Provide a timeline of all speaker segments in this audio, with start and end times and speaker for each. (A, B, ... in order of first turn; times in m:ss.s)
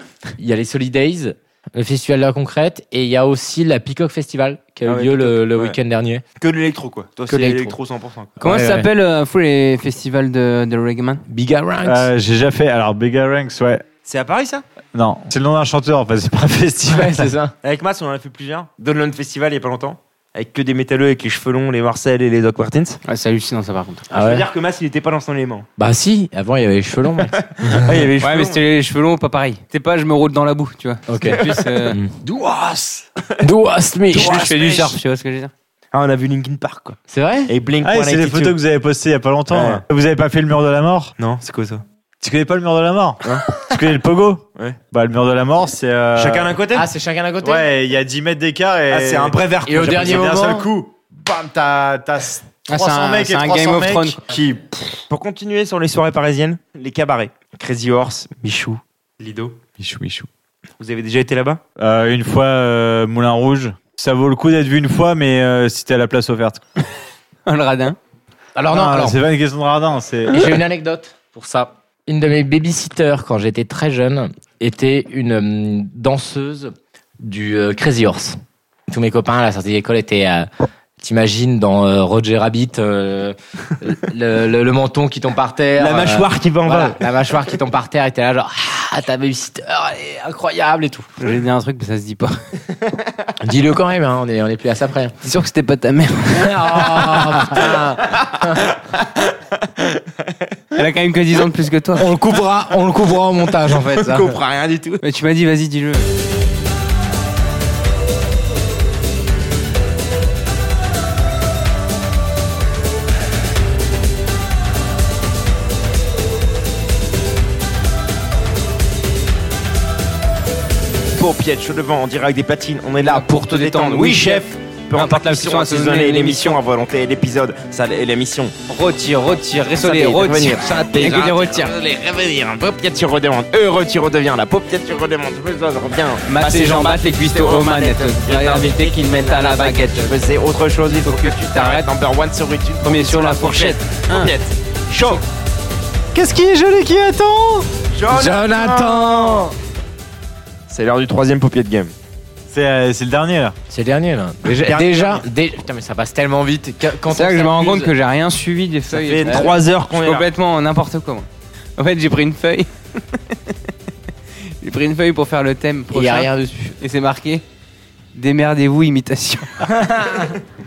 0:00.4-0:06.2 A
0:04.8-0:05.8 B
0:06.4-0:08.4 B
0:07.3-0:07.8 A
0:08.4-0:08.9 A
0:08.4-0:11.2 C
0:11.3-0:12.1 A
0:11.8-0:13.8 D
0:14.0-0:14.6 B
0:14.9-0:17.3 D
0:16.9-0:17.5 A
0:17.6-0:23.0 B
0:23.0-0:24.0 C
0:24.1-0:25.7 B
0:24.1-0:24.4 A
0:25.8-0:27.4 A
0:27.4-0:28.6 B
0:28.2-0:32.0 C
0:31.1-0:32.1 A
0:32.2-0:33.0 B
0:33.4-0:34.4 A
0:34.1-0:35.0 B
0:34.1-0:35.5 C
0:35.9-0:38.6 B
0:37.1-0:37.5 A
0:37.8-0:41.1 D
0:39.5-0:39.8 B
0:41.2-0:41.8 B
0:42.2-0:46.6 D
0:46.1-0:46.9 B
0:46.7-0:47.7 A
0:47.4-0:54.8 D
0:48.9-0:50.4 B
0:49.6-0:50.7 A
0:52.7-0:54.2 C
0:55.1-0:59.7 B
0:59.8-1:00.3 D
1:00.8-1:01.6 B
1:01.8-1:06.6 D
1:07.4-1:08.0 C
1:08.6-1:09.2 A
1:08.7-1:10.5 D
1:10.3-1:20.5 A
1:21.0-1:31.1 A
1:25.8-1:27.0 B
1:31.2-1:32.4 C
1:33.4-1:35.1 A
1:35.2-1:37.6 C
1:36.3-1:38.7 A
1:40.7-1:42.1 C
1:42.0-1:44.4 A
1:44.0-1:45.0 B
1:45.0-1:46.1 C
2:01.1-2:08.6 B
2:03.0-2:06.6 C
2:08.7-2:11.7 C
2:09.7-2:25.2 B
2:16.3-2:20.2 C
2:20.9-2:21.9 C
2:22.8-2:24.3 C
2:26.1-2:27.7 D
2:27.9-2:29.5 B
2:28.1-2:29.5 A
2:30.7-2:31.9 B
2:32.5-2:33.5 D
2:33.7-2:37.9 A
2:34.4-2:35.2 B
2:37.1-2:43.5 C
2:38.9-2:40.3 B
2:44.6-2:47.4 C
2:45.9-2:46.7 A
2:48.1-2:50.1 C
2:49.7-2:50.3 A